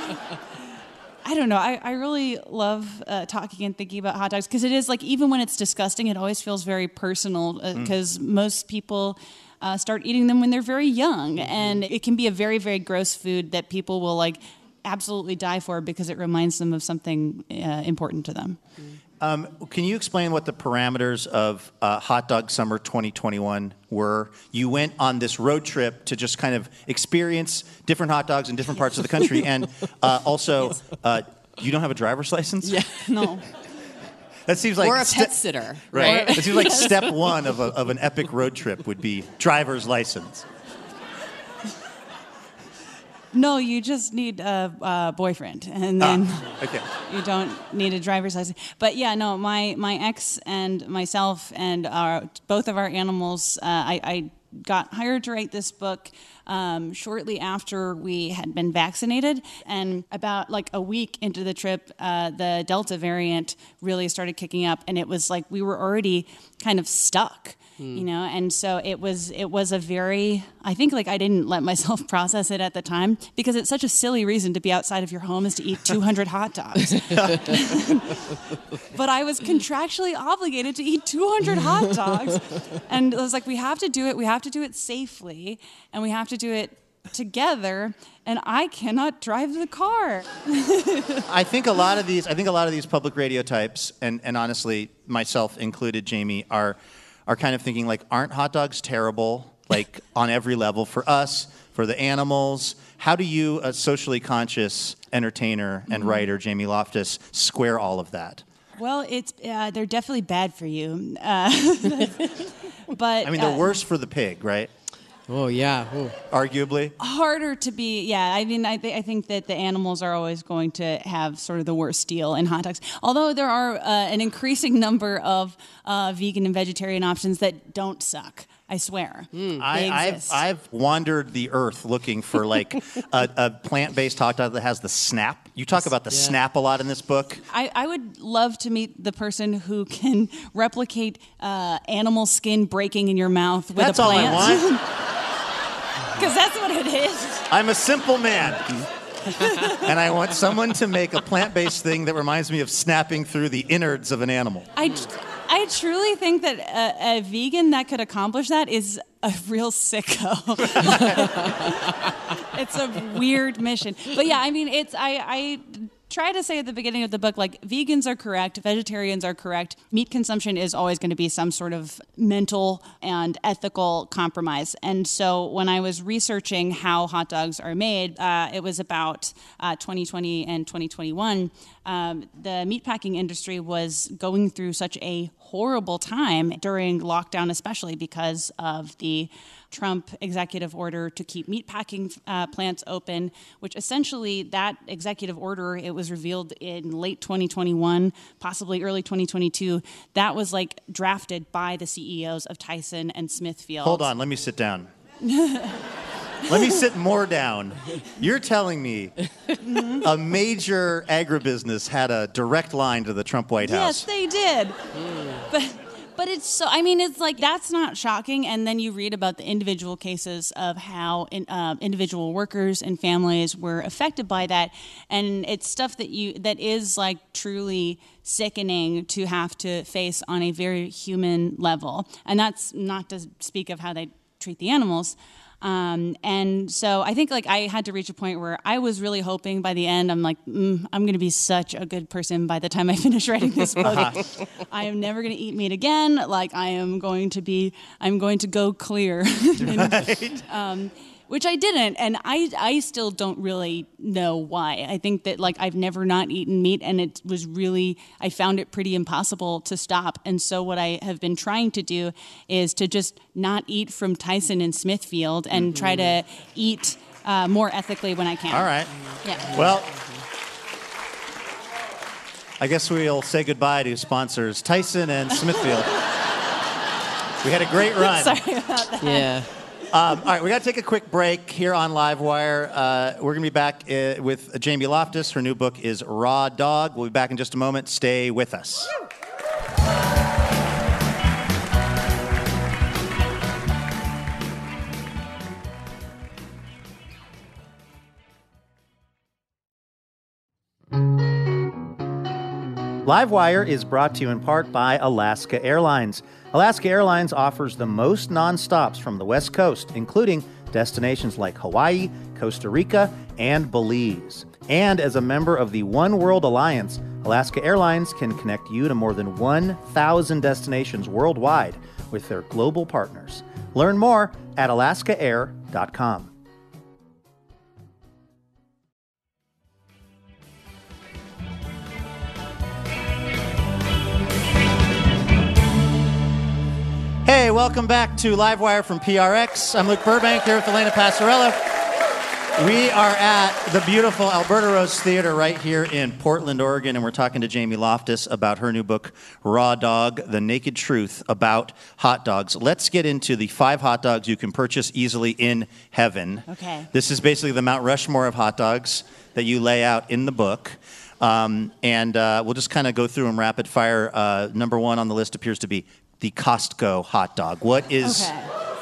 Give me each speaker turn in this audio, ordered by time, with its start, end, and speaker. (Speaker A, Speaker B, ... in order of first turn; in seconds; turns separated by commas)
Speaker A: 1.2-18.6, Speaker B: 19.2-32.9, Speaker C: 32.6-33.2, Speaker A: 33.0-33.5, Speaker B: 34.5-35.4, Speaker C: 34.8-36.8, Speaker B: 35.9-40.5, Speaker A: 35.9-37.0, Speaker A: 43.3-91.2, Speaker B: 46.0-46.9, Speaker B: 91.3-108.5, Speaker A: 108.8-113.8, Speaker B: 113.2-114.7, Speaker D: 115.3-116.2, Speaker B: 116.3-117.0, Speaker A: 117.0-130.4, Speaker D: 129.4-129.6, Speaker B: 129.6-137.4, Speaker D: 136.1-136.4, Speaker A: 137.5-144.9, Speaker B: 143.8-144.8, Speaker A: 146.1-147.5, Speaker B: 147.5-148.9, Speaker A: 149.3-149.9, Speaker B: 149.6-154.7, Speaker A: 154.8-204.1, Speaker B: 203.8-204.9, Speaker A: 205.2-205.8, Speaker B: 206.5-209.2, Speaker A: 209.6-210.1, Speaker B: 210.0-214.1, Speaker A: 213.6-268.7, Speaker B: 243.8-244.2, Speaker B: 249.6-250.4, Speaker B: 268.5-270.1, Speaker A: 269.2-269.6, Speaker B: 272.6-276.0, Speaker B: 277.4-278.4, Speaker A: 278.0-279.4, Speaker D: 279.0-279.4, Speaker B: 279.9-288.9, Speaker B: 303.0-326.3, Speaker B: 337.2-341.8, Speaker B: 342.6-368.3, Speaker A: 356.5-356.9, Speaker A: 368.0-368.5